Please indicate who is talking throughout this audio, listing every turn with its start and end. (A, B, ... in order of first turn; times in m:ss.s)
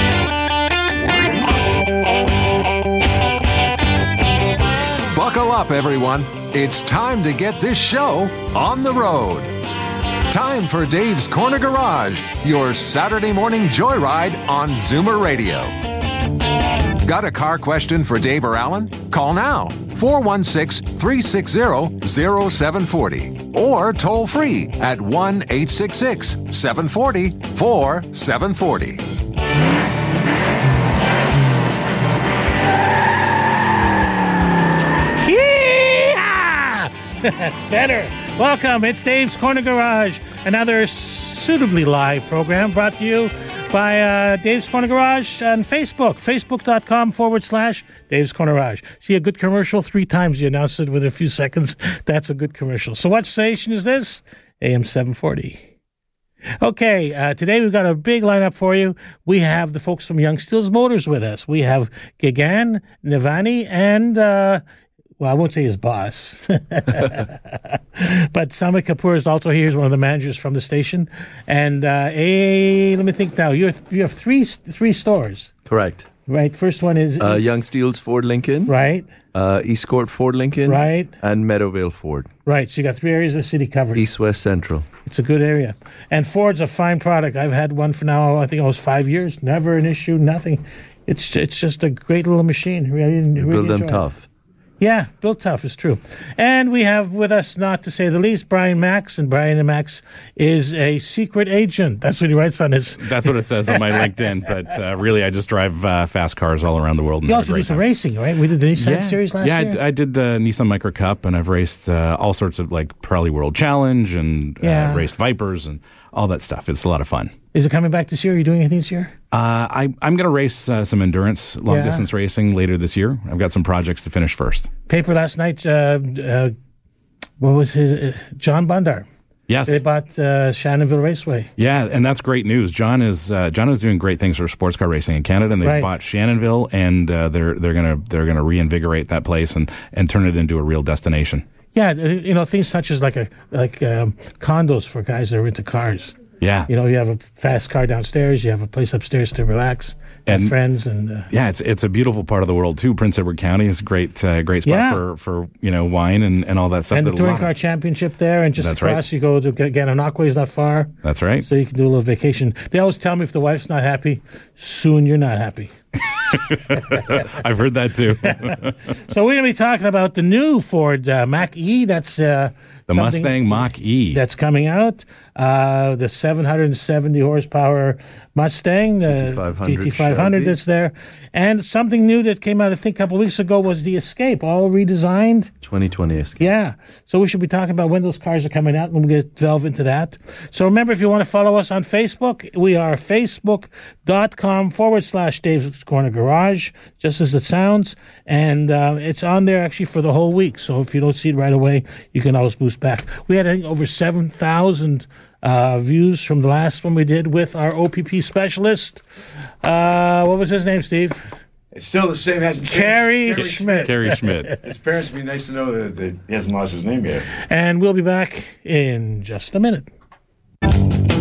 0:05.1-0:09.5 A
0:10.3-0:15.8 A
0:17.0-0:29.0 A
0:35.2-0:55.6 B
0:56.6-1:04.6 B
1:05.2-1:15.5 B
1:15.7-1:16.1 C
1:16.3-1:17.5 B
1:17.2-1:18.7 C
1:18.7-1:19.1 B
1:19.3-1:22.3 C
1:20.7-1:21.2 B
1:22.5-1:24.0 B
1:24.0-1:24.9 C
1:25.0-1:34.1 B
1:33.4-1:34.2 C
1:34.8-1:43.8 B
1:43.0-1:47.8 D
1:47.3-1:49.8 B
1:48.7-1:57.3 D
1:54.6-1:55.1 B
1:57.5-1:59.1 B
1:59.3-2:04.7 D
2:01.7-2:02.1 B
2:04.9-2:06.6 B
2:07.4-2:09.1 B
2:09.5-2:09.8 D
2:09.7-2:11.5 B
2:11.6-2:21.5 D
2:15.6-2:15.9 B
2:21.7-2:31.3 B
2:26.4-2:26.7 D
2:30.3-2:30.6 D
2:31.3-2:37.5 D
2:34.6-2:35.0 B
2:36.9-2:45.7 B
2:38.6-2:39.0 D
2:41.0-2:41.5 D
2:46.3-2:48.7 D
2:49.0-3:05.5 B
2:52.9-2:54.2 D
2:59.0-3:00.6 C
3:05.6-3:06.5 C
3:06.4-3:29.0 B
3:29.6-3:31.3 B
3:31.7-3:33.9 E
3:32.6-3:34.0 B
3:33.4-3:34.5 D
3:34.6-3:37.3 E
3:37.3-3:39.9 B